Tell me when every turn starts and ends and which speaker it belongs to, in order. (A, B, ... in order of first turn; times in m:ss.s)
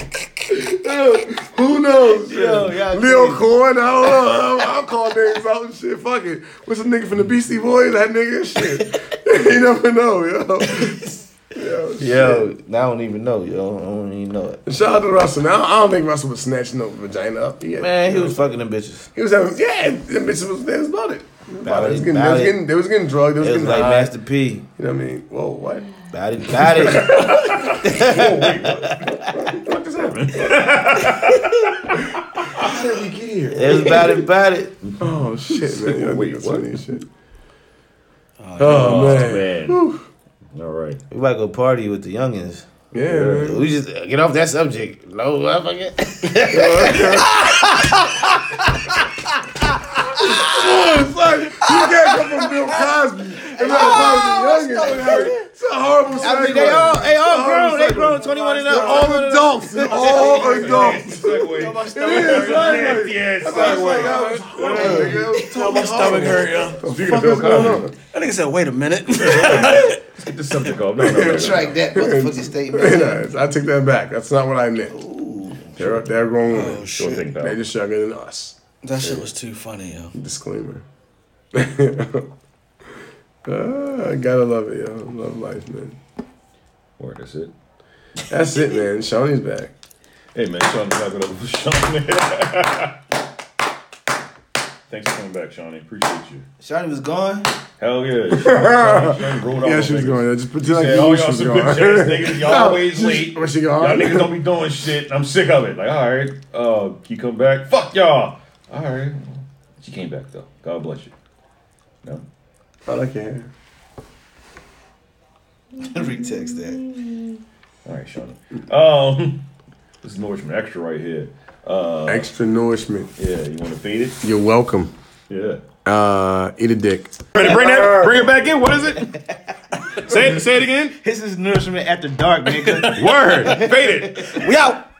0:00.5-0:12.5 A
0:02.2-0:03.4 B
0:12.0-0:14.6 B
0:14.6-0:18.6 A
0:17.8-0:19.1 B
0:19.2-0:24.1 A
0:21.6-0:22.6 B
0:23.4-0:24.6 B
0:23.7-0:24.1 C
0:24.8-0:26.0 A
0:26.1-0:29.3 B
0:26.8-0:27.7 A
0:26.9-0:32.8 C
0:29.4-0:29.8 A
0:32.6-0:34.1 A
0:33.5-0:34.7 B
0:34.8-0:36.7 C
0:35.0-0:37.0 A
0:38.4-0:39.3 D
0:38.6-0:39.8 C
0:38.6-0:40.0 A
0:40.5-0:41.0 C
0:41.1-0:42.7 B
0:42.9-0:43.6 A
0:43.1-0:43.5 C
0:43.3-0:48.1 B
0:46.5-0:47.4 A
0:50.2-1:07.9 A
0:50.2-0:50.6 B
0:51.7-0:52.2 B
0:51.9-0:55.4 D
0:53.6-0:54.2 B
0:54.8-0:55.2 B
0:56.2-1:00.8 B
0:56.4-0:57.2 D
0:58.1-0:59.1 D
0:59.9-1:05.3 C
1:00.0-1:10.8 D
1:04.7-1:06.5 B
1:06.8-1:07.9 C
1:09.1-1:11.8 C
1:11.0-1:15.0 A
1:11.2-1:13.2 B
1:14.9-1:16.0 B
1:15.8-1:19.2 A
1:16.5-1:17.3 D
1:16.9-1:17.6 C
1:18.8-1:20.1 D
1:20.1-1:20.8 A
1:21.5-1:22.3 A
1:23.4-1:26.0 A
1:27.0-1:27.5 C
1:28.3-1:29.7 A
1:30.4-1:33.0 C
1:34.9-1:36.4 C
1:36.6-1:37.5 B
1:37.8-1:51.1 C
1:38.3-1:44.4 A
1:52.9-1:53.5 A
1:55.8-1:56.8 B
1:57.8-1:59.4 C
2:00.0-2:02.3 C
2:02.1-2:03.1 A
2:03.2-2:04.2 C
2:04.2-2:04.9 A
2:05.3-2:05.6 C
2:05.8-2:08.2 A
2:07.3-2:09.1 C
2:10.0-2:10.9 C
2:11.0-2:14.5 B
2:12.5-2:13.7 D
2:12.9-2:14.5 C
2:14.3-2:14.8 D